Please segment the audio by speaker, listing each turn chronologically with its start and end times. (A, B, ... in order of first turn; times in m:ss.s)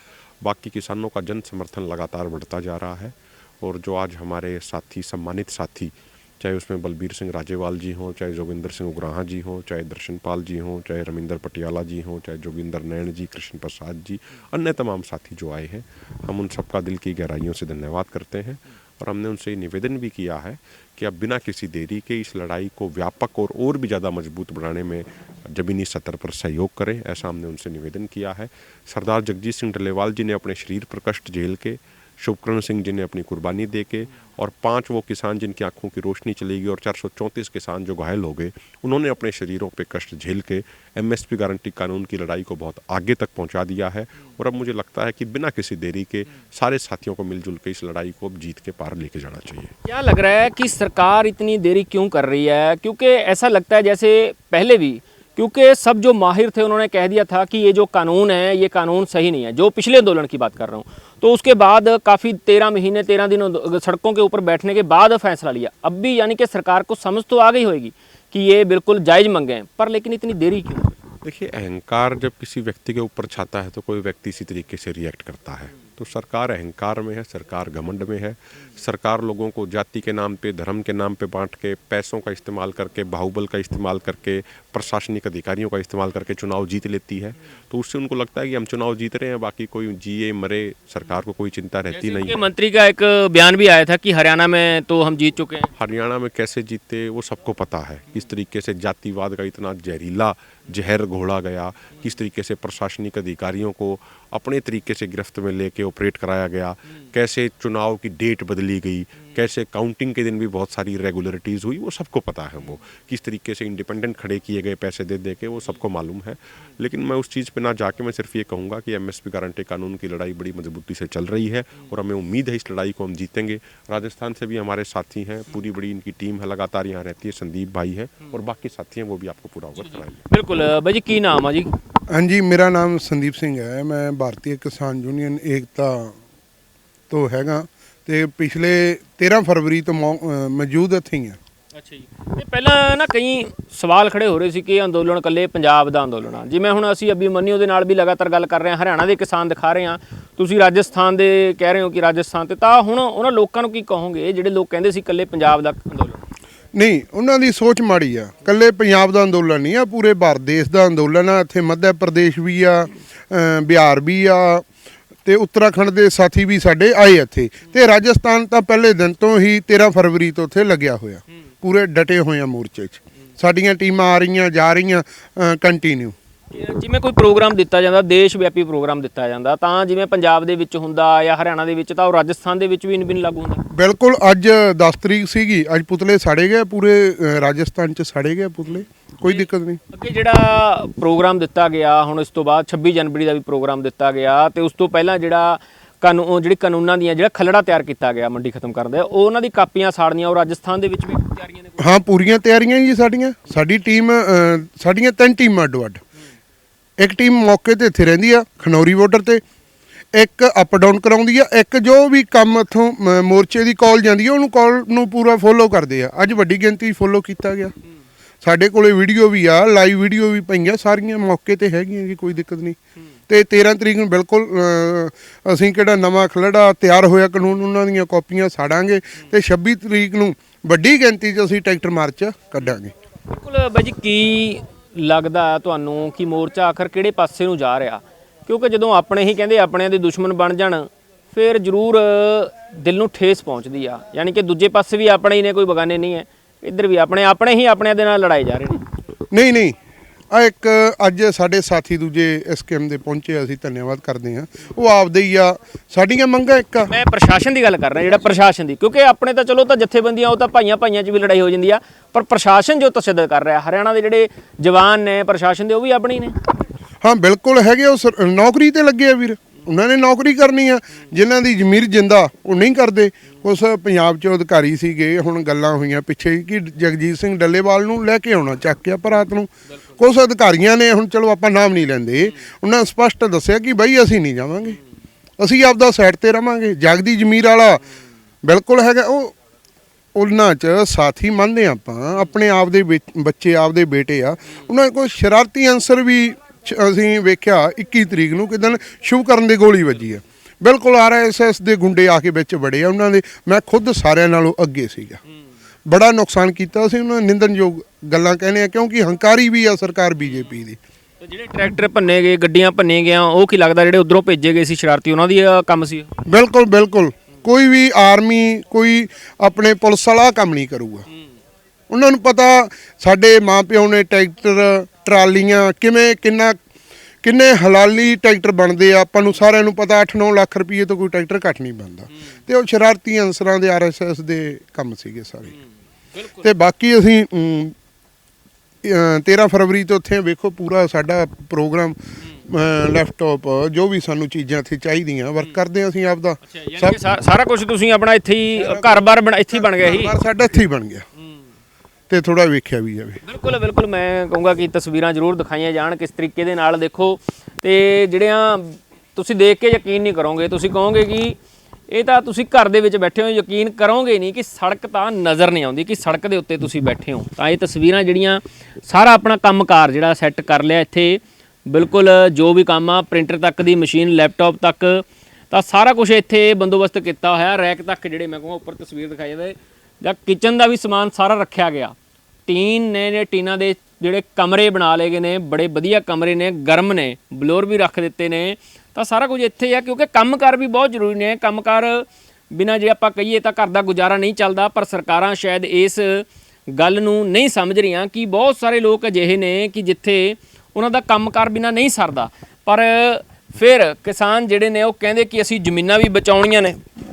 0:00.4-0:49.7 A
0:49.8-1:11.0 B
1:11.2-1:32.4 A
1:31.9-1:35.7 B
1:35.8-2:10.3 A
2:09.9-2:11.7 B
2:12.1-2:16.2 C
2:17.1-2:21.4 C
2:21.8-2:36.2 B
2:36.8-2:44.7 C
2:45.3-2:56.2 C
2:56.5-3:03.6 B
3:03.7-3:09.8 C
3:08.7-3:21.8 B
3:21.8-3:26.0 C
3:27.0-3:29.4 C
3:30.1-3:37.7 C
3:38.4-3:42.8 C
3:43.3-3:52.9 C
3:53.3-4:08.8 B
4:09.3-4:09.8 C
4:10.3-4:16.9 C
4:16.9-4:26.4 B
4:27.0-4:44.8 C
4:39.7-4:40.0 B
4:45.4-4:47.8 C
4:48.4-4:49.3 C
4:50.2-5:05.2 C
5:05.9-5:10.8 C
5:11.2-5:16.1 B
5:16.3-5:21.0 C
5:21.9-5:26.6 C
5:27.2-5:35.5 C
5:35.5-5:36.5 B
5:36.4-5:37.7 C
5:38.8-5:47.0 C
5:46.4-5:50.2 B
5:48.6-5:51.0 C
5:52.1-5:53.2 C
5:53.2-6:01.4 B
6:01.9-6:22.0 B
6:22.5-6:46.8 B